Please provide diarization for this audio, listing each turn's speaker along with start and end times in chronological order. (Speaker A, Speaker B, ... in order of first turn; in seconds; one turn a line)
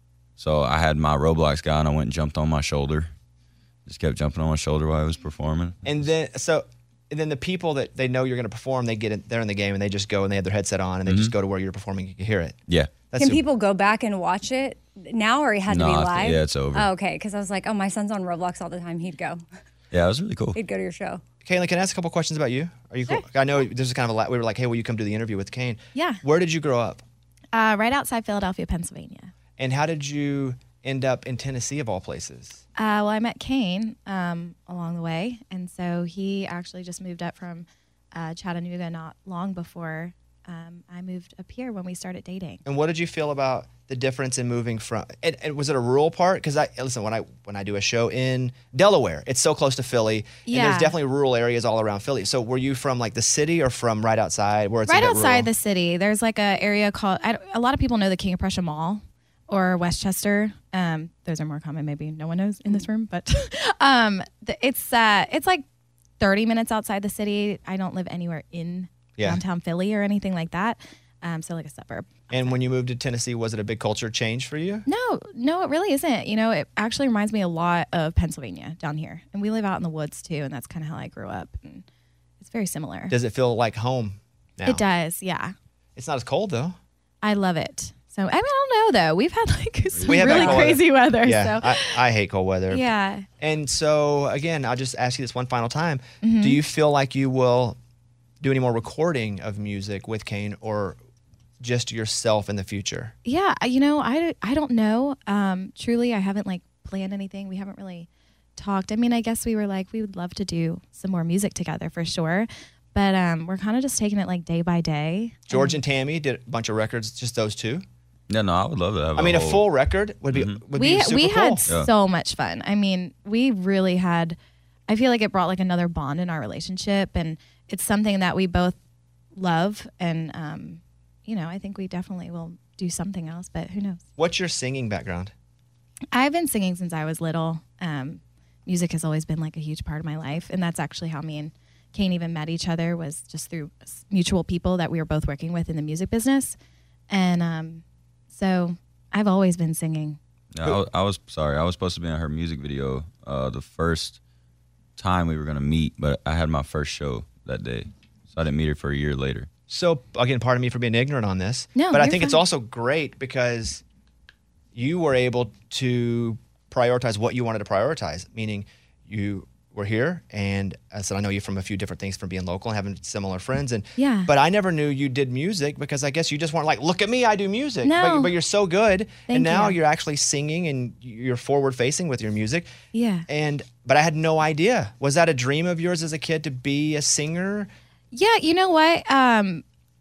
Speaker A: 0.4-3.1
Speaker A: 3.9-6.0
Speaker B: 5.8-12.6
Speaker A: 11.1-11.3
Speaker A: 12.7-13.1
Speaker B: 13.1-13.4
Speaker C: 13.2-19.4
Speaker A: 15.7-16.9
Speaker A: 19.9-20.6
Speaker C: 20.6-21.2
Speaker B: 21.4-27.0
Speaker D: 25.9-26.2
Speaker D: 27.5-29.3
Speaker B: 29.6-32.6
Speaker D: 32.8-42.6
Speaker B: 42.6-55.5
Speaker D: 50.5-51.0
Speaker D: 54.9-65.6
Speaker D: 66.2-72.5
Speaker B: 69.2-69.4
Speaker B: 72.3-74.9
Speaker D: 74.9-81.8
Speaker D: 82.4-83.2
Speaker B: 83.1-84.8
Speaker D: 84.7-85.5
Speaker B: 86.0-86.8
Speaker D: 87.2-92.0
Speaker A: 90.0-90.7
Speaker B: 90.0-92.9
Speaker D: 92.7-93.3
Speaker B: 93.4-97.8
Speaker D: 96.2-96.6
Speaker B: 98.4-101.0
Speaker B: 101.6-103.1
Speaker D: 103.2-115.8
Speaker B: 115.5-117.8
Speaker A: 118.3-119.7
Speaker B: 119.2-121.7
Speaker A: 120.3-120.6
Speaker D: 120.7-124.4
Speaker D: 124.9-128.8
Speaker D: 129.4-134.0
Speaker B: 134.2-135.3
Speaker D: 136.1-146.6
Speaker D: 147.1-150.2
Speaker A: 150.6-154.2
Speaker A: 155.0-159.5
Speaker B: 159.7-163.8
Speaker D: 161.8-162.4
Speaker B: 164.8-182.7
Speaker D: 174.0-174.3
Speaker D: 177.8-178.3
Speaker D: 179.3-179.8
Speaker D: 182.9-183.2
Speaker B: 183.3-187.7
Speaker D: 188.1-189.6